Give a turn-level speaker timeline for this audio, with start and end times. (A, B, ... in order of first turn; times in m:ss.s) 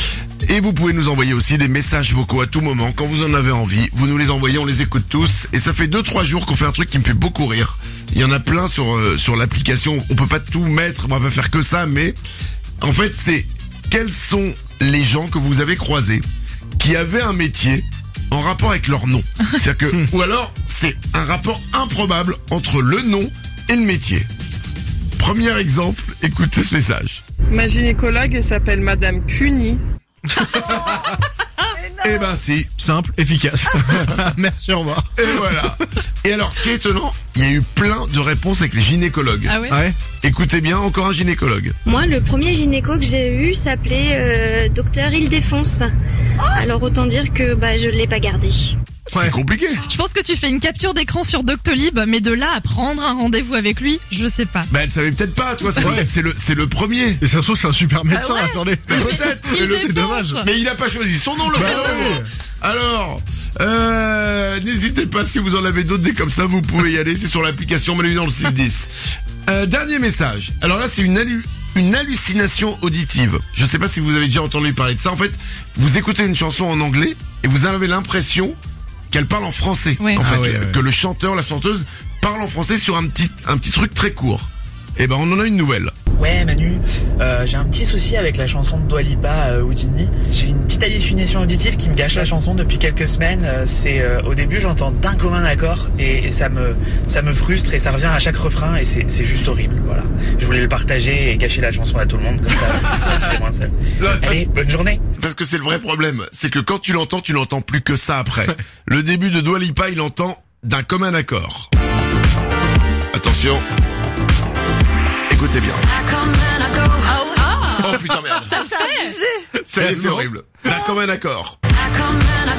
0:00.4-0:12.2 A
0:12.8-0:16.2 A
0:16.8-0:24.3 A
0:25.2-0:27.2 A
0:27.5-0:29.8 B
0:30.5-0:31.1 A
0:31.8-0:32.3 B
0:32.0-0:32.7 A
0:32.8-0:35.1 C
0:35.2-0:39.6 A
0:39.5-0:39.8 D
0:39.7-0:40.0 C
0:40.1-0:41.8 A
0:41.9-0:45.9 E
0:46.5-0:48.8 E
0:49.1-0:49.8 A
0:49.1-0:49.4 C
0:49.9-0:54.7 D
0:54.7-0:57.2 A
0:55.8-0:56.1 C
0:57.2-1:00.4 C
0:58.1-1:00.5 D
0:58.9-1:08.9 A
1:01.5-1:02.3 C
1:09.5-1:18.6 A
1:19.1-1:25.9 A
1:20.0-1:20.3 D
1:20.2-1:20.8 C
1:26.1-1:45.0 F
1:44.0-1:44.5 A
1:45.2-1:51.7 A
1:53.1-1:53.6 A
1:55.3-1:55.9 A
1:57.0-1:59.2 D
1:57.8-1:58.6 A
1:59.6-2:01.6 A
1:59.8-2:00.3 C